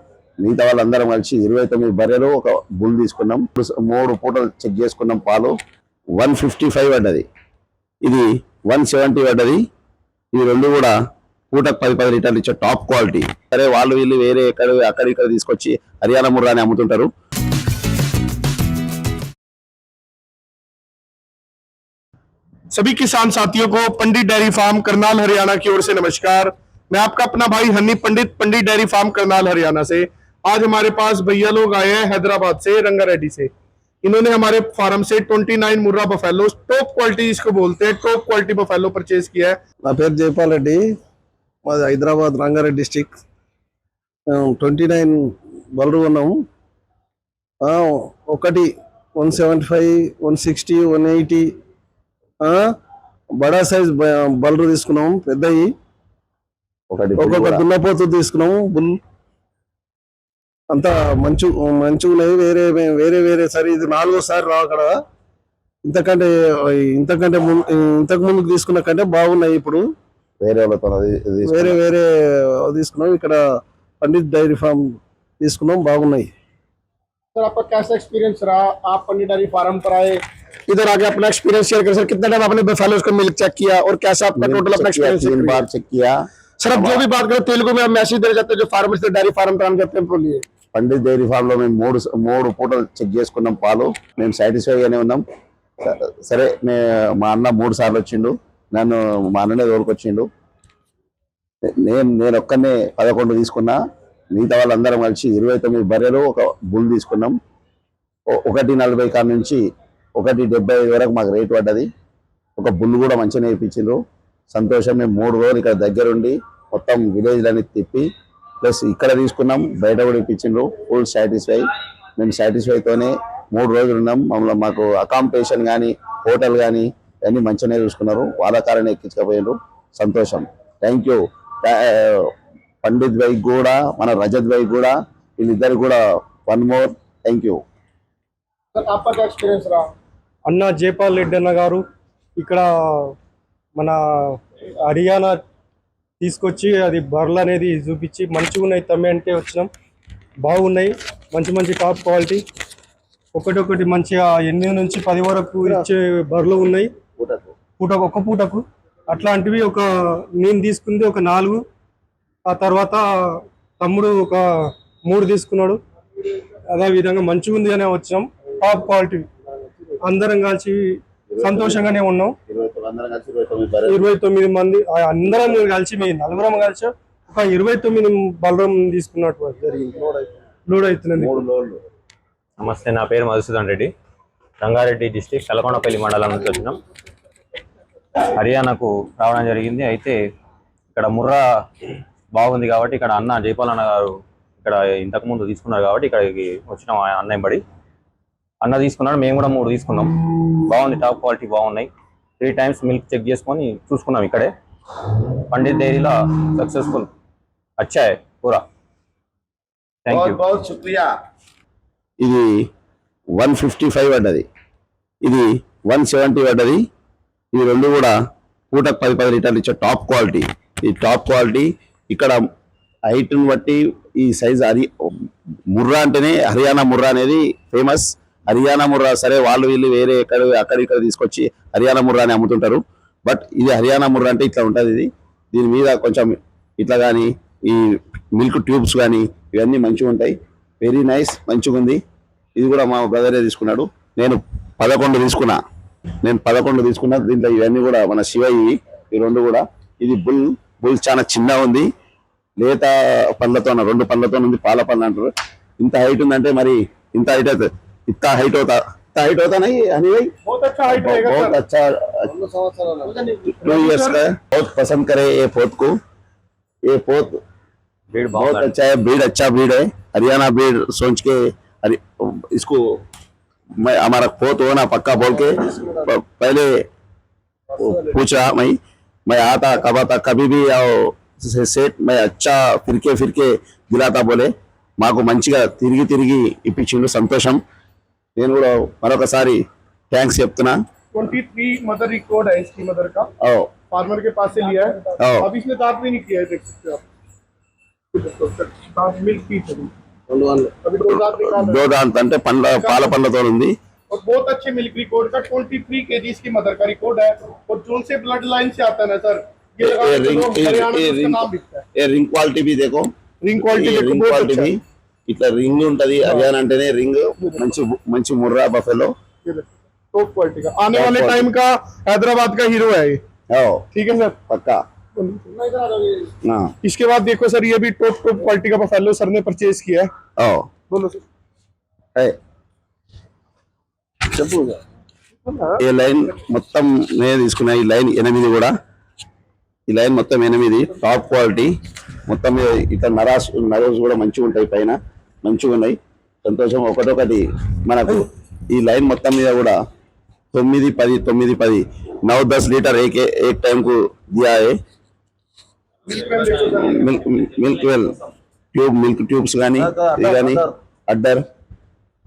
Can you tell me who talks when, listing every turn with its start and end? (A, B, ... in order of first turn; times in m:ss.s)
0:00.4-0:05.5 A
0:06.2-0:07.2 A
0:08.0-0:09.6 A
0:10.3-0:10.9 A
0:11.5-0:17.1 A
0:22.7-0:33.5 B
0:34.0-0:39.6 B
0:39.8-0:41.0 C
0:41.6-0:43.2 C
0:44.3-0:46.4 C
0:47.6-0:51.5 C
0:52.4-0:52.7 C
0:53.4-0:55.7 C
0:56.9-0:57.6 A
0:57.2-0:59.0 C
1:00.7-1:05.0 C
1:05.8-1:09.8 C
1:10.4-1:11.8 A
1:11.4-1:16.3 C
1:17.3-1:25.6 B
1:24.4-1:26.1 A
1:26.6-1:30.4 B
1:26.7-1:27.0 A
1:30.7-1:35.2 A
1:35.8-1:40.3 A
1:41.7-1:43.8 A
1:44.3-1:47.4 A
1:48.3-1:49.6 A
1:50.2-1:51.9 A
1:52.6-1:54.0 A
1:54.5-1:58.1 A
1:58.6-2:01.6 A
2:02.2-2:12.3 A
2:12.8-2:17.6 A
2:18.7-2:19.8 B
2:20.5-2:21.8 D
2:22.4-2:23.1 D
2:23.8-2:25.4 D
2:26.2-2:29.7 D
2:30.4-2:32.4 D
2:33.3-2:36.9 D
2:37.2-2:37.5 A
2:37.8-2:41.6 D
2:42.5-2:45.8 D
2:46.7-2:49.3 D
2:50.0-2:52.4 D
2:51.3-2:51.9 A
2:52.5-2:54.0 A
2:53.8-2:59.6 D
2:59.6-3:00.3 C
3:00.7-3:01.4 D
3:01.1-3:01.8 A
3:02.6-3:03.9 E
3:04.6-3:06.8 E
3:08.2-3:10.2 E
3:10.9-3:11.5 E
3:12.3-3:17.6 E
3:18.6-3:24.5 E
3:25.5-3:27.1 E
3:27.8-3:28.6 E
3:30.0-3:30.4 E
3:30.1-3:31.1 A
3:32.2-3:32.7 A
3:33.4-3:34.4 A
3:35.2-3:36.8 A
3:37.5-3:38.2 A
3:38.7-3:42.4 A
3:43.1-3:44.9 A
3:45.7-4:02.0 A
4:02.6-4:05.6 A
4:06.2-4:11.9 A
4:12.6-4:20.3 A
4:20.4-4:21.6 B
4:20.9-4:22.3 A
4:22.3-4:23.3 C
4:23.3-4:24.2 B
4:23.6-4:25.9 A
4:26.9-4:27.4 A
4:28.1-4:28.7 E
4:28.3-4:32.8 A
4:33.8-4:36.7 A
4:35.2-4:36.1 C
4:37.7-4:38.2 C
4:37.8-4:38.8 A
4:39.3-4:47.6 A
4:48.4-4:50.7 A
4:51.1-4:53.3 B
4:53.4-4:53.7 A
4:53.9-4:57.0 B
4:55.2-4:55.5 A
4:58.1-4:59.9 B
5:00.3-5:00.7 C
5:00.8-5:01.8 B
5:01.4-5:03.7 A
5:02.8-5:03.1 B
5:04.1-5:11.8 B
5:09.8-5:11.4 A
5:12.0-5:13.1 A
5:13.4-5:14.7 B
5:13.7-5:14.8 A
5:15.3-5:19.1 A
5:16.2-5:16.5 B
5:17.4-5:17.7 B
5:19.4-5:23.2 B
5:20.9-5:21.5 A
5:23.5-5:23.8 A
5:23.9-5:24.4 B
5:24.5-5:24.8 A
5:25.2-5:26.2 B
5:26.4-5:26.7 A
5:26.8-5:30.1 B
5:30.4-5:30.7 A
5:30.9-5:31.2 B
5:34.3-5:34.8 C
5:35.4-5:35.8 B
5:35.8-5:38.7 A
5:39.9-5:41.7 A
5:42.3-5:49.7 A
5:50.5-5:54.8 A
5:56.1-5:57.1 B
5:56.7-5:58.1 A
5:58.7-6:01.4 A
5:59.8-6:00.7 C